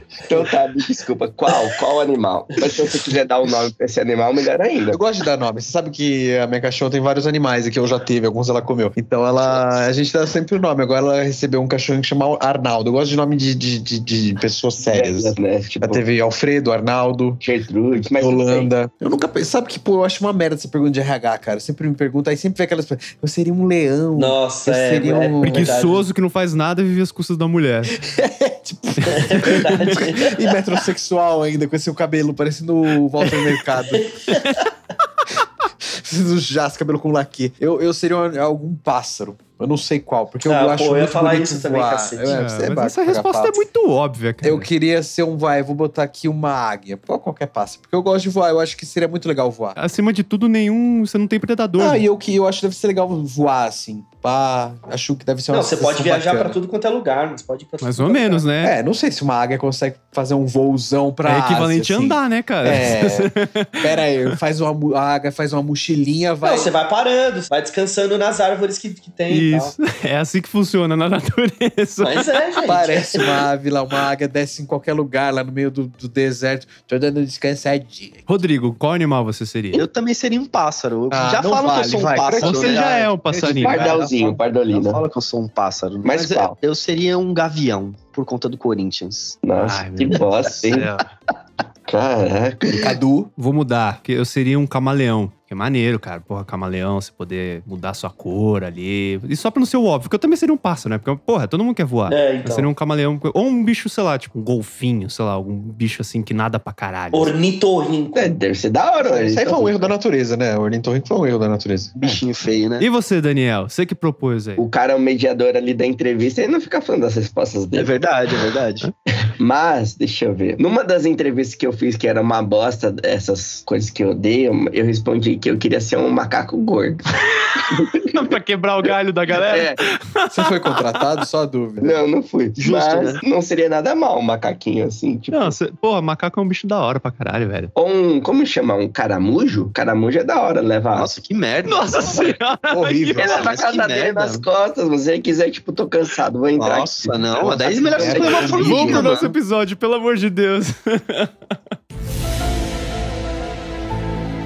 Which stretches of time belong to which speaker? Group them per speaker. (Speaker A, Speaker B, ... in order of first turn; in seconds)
Speaker A: 0.2-5.0, 14.9-16.0, 17.4-18.7, 83.5-85.0, 86.0-86.6, 89.4-90.9, 91.9-92.9, 108.1-109.9, 114.6-118.0, 119.3-127.0, 127.6-128.1, 128.8-129.8, 131.8-135.6, 137.8-141.2, 143.2-149.2
Speaker B: 4.9-17.4, 18.1-25.8, 28.0-34.1, 35.8-43.6, 44.4-49.8, 51.8-56.6, 58.6-66.7, 72.7-78.3, 81.1-84.0, 92.8-93.3, 109.0-112.2, 130.3-131.9, 142.7-143.6, 147.7-149.3
Speaker C: 24.1-26.1, 29.1-30.3, 33.9-34.6, 40.5-42.4, 55.5-58.5, 66.4-69.8, 72.0-73.3, 102.1-102.7, 107.1-108.3
Speaker D: 25.4-28.0, 29.0-30.2, 34.3-34.6, 42.3-44.7, 49.8-52.0, 57.8-58.8, 61.2-64.0, 69.3-72.4, 78.3-79.9, 82.4-84.0, 89.5-91.1, 93.4-107.3, 112.8-114.6, 128.1-131.1, 135.3-137.7, 141.7-143.4, 148.5-151.3
Speaker E: 79.7-89.4, 112.0-112.9, 117.8-118.9, 132.6-133.2, 140.9-142.2, 143.2-144.5, 146.6-149.3